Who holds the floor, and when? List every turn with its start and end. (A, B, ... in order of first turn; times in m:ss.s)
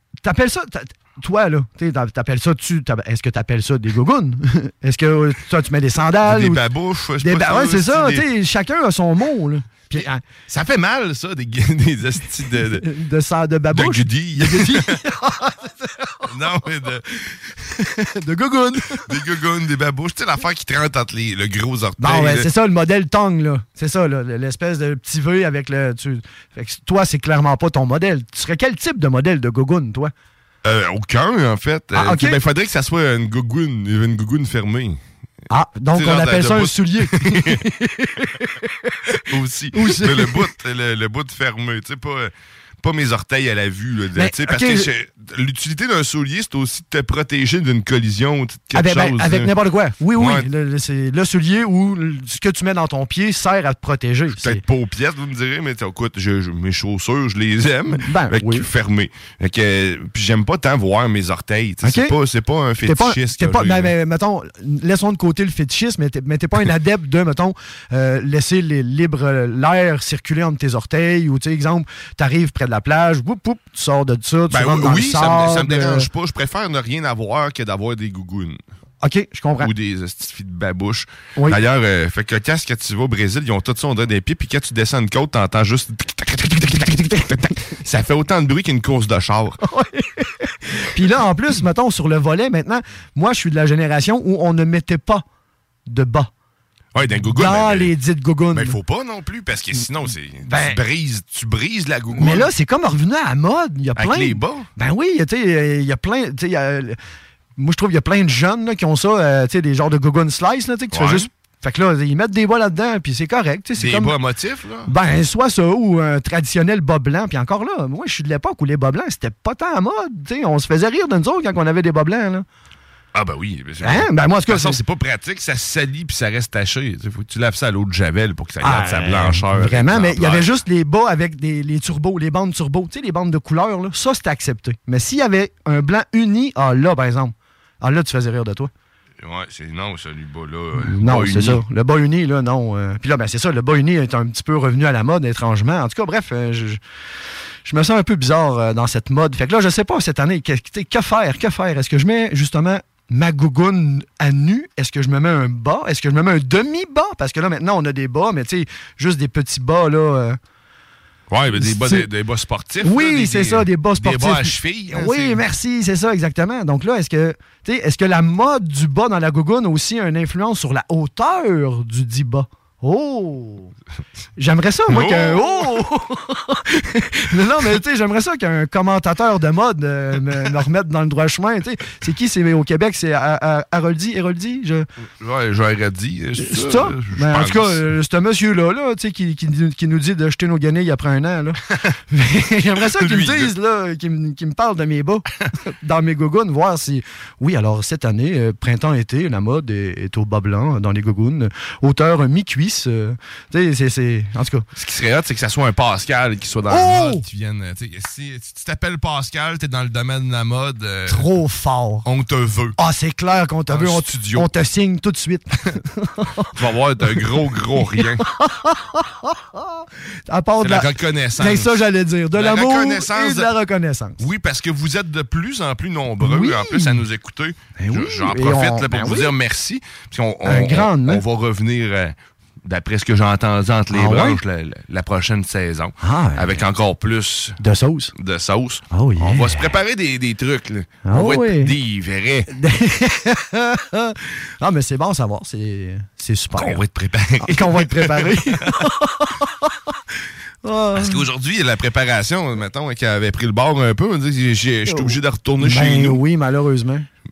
0:00.2-0:06.6 A
0:06.2-0:08.3 B
0:07.2-0:10.2 A
0:10.0-0:12.9 B
0:12.7-0:16.2 A
0:13.7-0:15.0 B
0:16.2-0:17.4 B
0:17.8-0:19.1 A
0:19.0-0:22.5 B
0:22.0-0:30.1 A
0:30.6-0:35.0 B
0:32.0-0:32.4 A
0:35.5-0:39.2 A
0:35.9-0:37.6 B
0:39.3-0:49.5 B
0:39.7-0:40.5 A
0:44.2-0:44.9 A
0:48.7-0:54.6 A
0:50.2-0:50.5 B
0:54.3-1:03.9 B
0:57.9-0:58.7 A
1:01.8-1:02.1 A
1:02.8-1:16.1 A
1:14.5-1:18.6 B
1:19.0-1:19.7 A
1:19.6-1:29.6 B
1:29.6-1:35.2 A
1:35.9-1:36.3 A
1:36.9-1:37.9 B
1:37.3-1:38.8 A
1:38.5-1:42.5 B
1:40.5-1:40.8 A
1:42.1-1:47.0 A
1:44.0-1:44.7 B
1:47.6-1:54.1 A
1:50.9-1:51.3 B
1:53.8-1:54.9 B
1:54.9-2:02.4 A
2:03.1-2:10.5 B
2:03.8-2:04.8 A
2:08.6-2:18.7 A
2:19.2-2:21.6 B
2:20.8-2:26.8 A
2:27.6-2:40.4 A
2:41.3-2:45.4 B
2:41.6-2:42.1 A
2:42.8-2:53.7 A
2:54.4-3:04.9 A
2:54.9-2:55.8 B
3:05.2-3:07.8 B
3:06.4-3:11.6 A
3:12.1-3:24.7 A
3:12.8-3:13.5 B
3:24.8-3:31.3 B
3:26.7-3:27.2 A
3:31.1-3:32.1 A
3:32.0-3:32.8 B
3:32.8-3:36.5 A
3:33.7-3:34.5 B
3:36.6-3:38.2 B
3:37.9-3:44.2 A
3:40.6-3:41.8 B
3:42.3-3:43.5 B
3:44.2-3:57.6 B
3:46.2-3:47.0 A
3:47.8-3:49.3 A
3:50.4-3:51.2 A
3:53.9-3:54.4 A
3:56.0-3:56.6 A
3:57.6-3:58.1 A
3:58.2-4:02.5 B
3:58.9-3:59.7 A
4:01.0-4:01.7 A
4:02.5-4:06.8 A
4:06.6-4:08.7 B
4:07.4-4:09.7 A
4:10.6-4:11.2 A
4:11.0-4:16.2 B
4:14.9-4:17.1 A